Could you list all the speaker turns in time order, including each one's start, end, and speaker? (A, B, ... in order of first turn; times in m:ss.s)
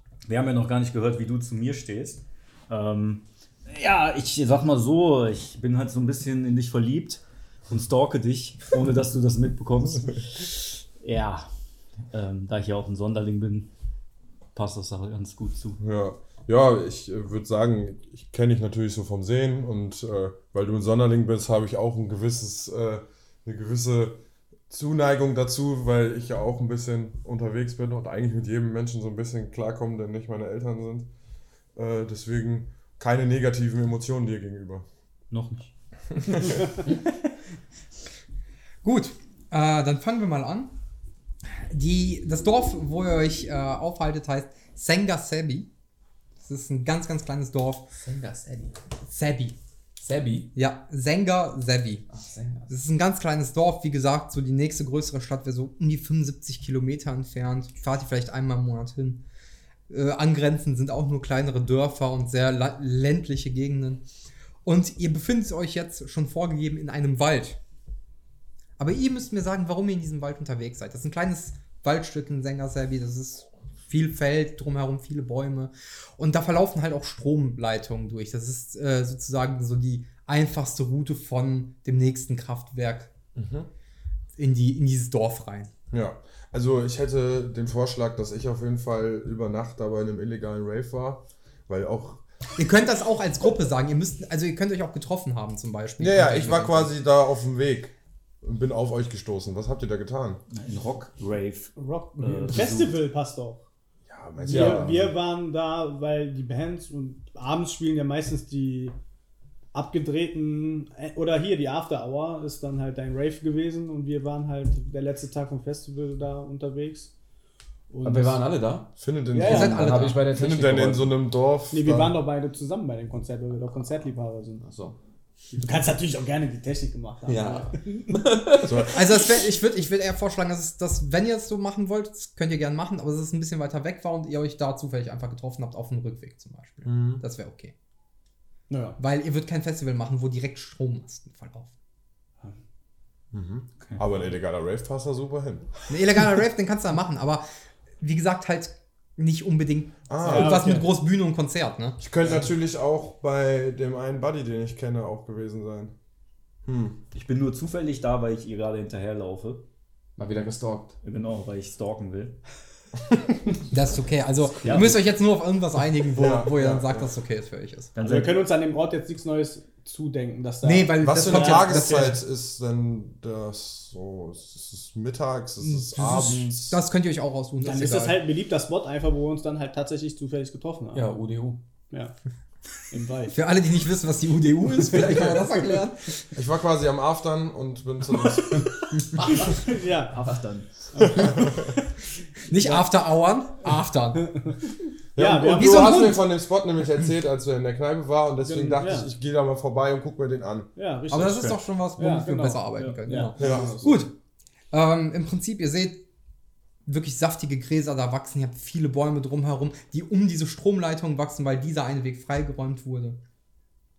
0:00.2-0:11.5 A
0:12.1-0:13.7 A
0:14.5-0:15.8 A
0:15.8-0:31.1 B
0:31.8-0:34.8 B
0:35.3-0:35.7 A
0:36.3-0:36.6 B
0:38.8-0:40.7 C
0:41.6-0:45.7 C
0:46.4-0:47.9 C
0:48.0-0:48.8 D
0:49.1-0:49.6 C
0:50.0-0:50.5 D
0:50.5-0:52.0 C
0:52.1-0:52.7 D
0:52.7-0:59.2 C
0:59.9-1:04.0 C
1:04.6-1:07.6 C
1:08.8-1:23.1 C
1:23.3-1:23.7 B
1:24.4-1:25.7 C
1:25.9-1:32.2 B
1:32.6-1:36.9 C
1:36.0-1:40.4 B
1:40.5-1:43.0 A
1:41.8-1:43.6 E
1:44.1-1:45.1 B
1:44.4-1:48.9 E
1:44.5-1:44.9 D
1:49.7-1:57.1 E
1:57.9-1:58.4 E
1:58.0-1:58.9 D
1:59.0-2:02.1 B
1:59.3-1:59.8 E
1:59.4-2:00.2 C
1:59.5-2:01.1 D
2:01.7-2:04.6 E
2:04.6-2:05.0 D
2:05.5-2:08.0 E
2:07.2-2:09.0 D
2:08.6-2:09.0 B
2:08.9-2:17.7 C
2:16.8-2:17.2 B
2:18.7-2:19.0 E
2:19.0-2:21.7 C
2:23.3-2:25.7 B
2:25.9-2:27.4 C
2:28.0-2:32.0 C
2:30.1-2:30.6 B
2:30.2-2:30.9 E
2:32.0-2:35.9 B
2:36.6-2:37.0 B
2:37.1-2:39.6 A
2:40.2-2:41.0 D
2:41.0-2:42.4 A
2:43.7-2:47.9 C
2:44.6-2:45.0 A
2:46.2-2:47.1 B
2:47.9-2:48.4 A
2:48.0-2:52.0 E
2:50.6-2:52.2 C
2:51.0-2:56.8 B
2:55.9-2:58.2 C
2:57.6-3:01.0 E
3:00.9-3:01.6 D
3:02.9-3:03.3 E
3:03.3-3:06.2 C
3:06.3-3:08.9 B
3:09.6-3:10.3 E
3:10.2-3:10.7 D
3:10.9-3:11.7 E
3:11.0-3:11.6 B
3:12.5-3:14.3 C
3:14.2-3:14.6 E
3:15.1-3:20.7 B
3:15.2-3:16.0 E
3:15.5-3:16.2 C
3:18.4-3:19.1 E
3:20.8-3:24.0 E
3:21.1-3:24.1 C
3:23.4-3:23.9 B
3:24.7-3:26.0 C
3:26.8-3:33.2 C